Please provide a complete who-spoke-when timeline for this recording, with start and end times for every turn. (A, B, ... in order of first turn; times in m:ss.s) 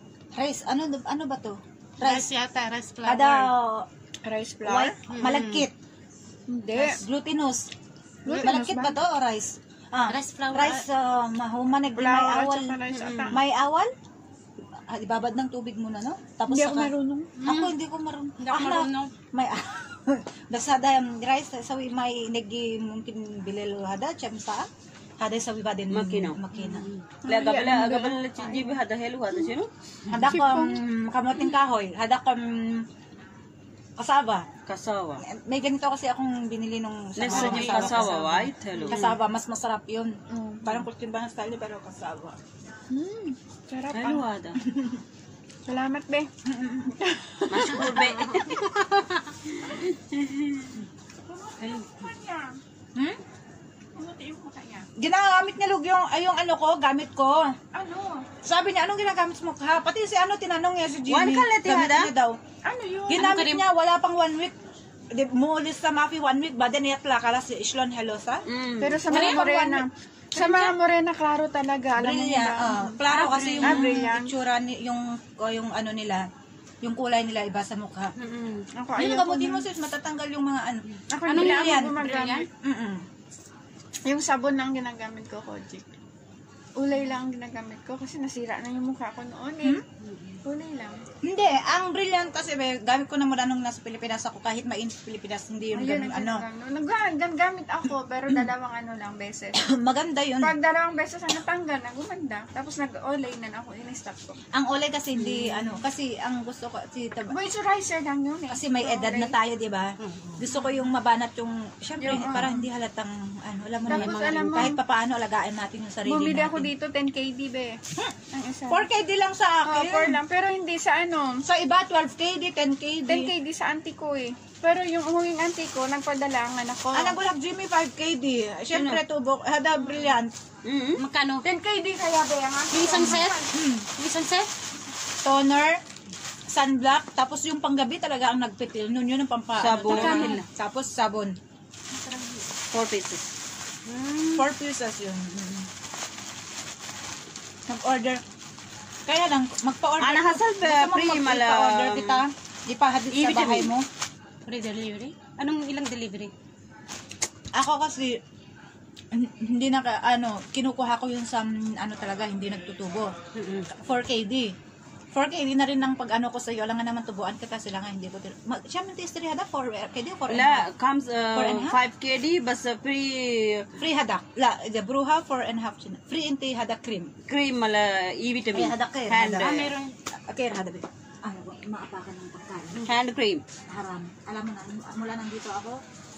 0:00.4-0:02.2 A
0:02.0-0:03.5 B
0:03.0-0:03.9 A
0:04.2-0:05.0 C
0:04.6-0:05.7 A
0:05.1-0:05.7 B
0:06.5-0:07.0 C
0:06.7-0:07.7 A
0:08.2-0:09.0 C
0:08.3-0:12.8 A
0:10.1-0:10.8 B
0:11.9-0:13.4 C
0:12.9-0:13.3 B
0:13.3-0:13.9 A
0:14.9-0:24.7 A
0:16.5-0:17.3 C
0:17.4-0:17.7 B
0:18.4-0:19.1 B
0:25.2-0:26.9 A
0:25.9-0:26.4 D
0:26.5-0:27.0 B
0:27.2-0:28.6 C
0:27.2-0:29.7 D
0:30.1-0:32.9 A
0:30.3-0:30.8 C
0:34.0-0:34.5 A
0:34.7-0:35.2 D
0:35.2-0:42.4 A
0:37.2-0:39.0 D
0:37.3-0:38.2 B
0:38.9-0:39.2 B
0:42.9-0:44.2 C
0:43.9-0:44.6 D
0:44.6-0:45.0 A
0:45.6-0:46.3 C
0:46.4-0:47.7 A
0:47.2-0:47.6 C
0:47.5-0:48.6 D
0:48.3-0:49.2 B
0:50.0-0:50.6 D
0:51.2-0:52.6 C
0:54.0-0:54.9 C
0:55.0-0:57.6 A
0:57.7-0:58.3 C
0:58.4-1:02.4 A
1:01.1-1:02.1 D
1:02.6-1:03.2 C
1:03.1-1:03.6 B
1:03.1-1:04.6 A
1:05.1-1:08.4 A
1:08.4-1:09.2 D
1:08.8-1:12.7 C
1:09.1-1:09.8 A
1:09.1-1:09.5 B
1:10.3-1:10.8 A
1:12.0-1:16.3 A
1:12.7-1:14.1 B
1:13.6-1:14.3 C
1:16.8-1:18.1 A
1:18.2-1:18.6 B
1:18.8-1:19.6 C
1:19.0-1:22.0 A
1:21.1-1:22.5 C
1:21.2-1:22.5 B
1:22.6-1:23.0 A
1:24.0-1:25.9 C
1:26.8-1:29.8 C
1:30.0-1:30.4 B
1:30.4-1:31.0 C
1:31.2-1:36.4 A
1:35.7-1:39.6 C
1:39.6-1:40.6 A
1:40.4-1:44.4 C
1:44.5-1:47.3 A
1:45.2-1:45.8 B
1:47.3-1:49.3 C
1:48.5-1:56.7 A
1:50.0-1:50.4 B
1:52.0-1:52.6 C
1:53.9-1:54.8 B
1:53.9-1:54.8 C
1:56.0-1:57.8 C
1:58.3-1:58.9 C
1:58.7-2:00.2 A
1:59.6-2:01.4 C
2:01.4-2:03.3 A
2:03.1-2:07.2 C
2:06.9-2:10.3 A
2:08.7-2:09.0 D
2:10.6-2:11.0 D
2:11.0-2:11.4 B
2:11.4-2:13.5 C
2:12.7-2:13.4 B
2:13.0-2:13.9 A
2:14.0-2:14.5 B
2:15.2-2:15.8 A
2:16.5-2:21.4 A
2:19.6-2:20.4 D
2:19.8-2:20.4 B
2:22.0-2:22.3 B
2:22.7-2:23.2 D
2:23.9-2:24.4 B
2:24.4-2:25.7 A
2:27.7-2:28.2 A
2:29.1-2:33.9 A
2:30.0-2:32.2 D
2:33.1-2:33.7 D
2:34.4-2:36.3 B
2:37.5-2:38.2 A
2:39.1-2:43.1 A
2:43.3-2:43.7 B
2:43.8-2:44.5 A
2:45.1-2:50.7 A
2:50.3-2:53.7 D
2:51.3-2:51.8 A
2:53.8-2:57.1 A
2:57.3-2:59.7 D
2:58.5-2:59.6 A
2:59.3-2:59.9 B
3:00.3-3:02.8 A
3:02.9-3:03.4 D
3:03.7-3:05.8 A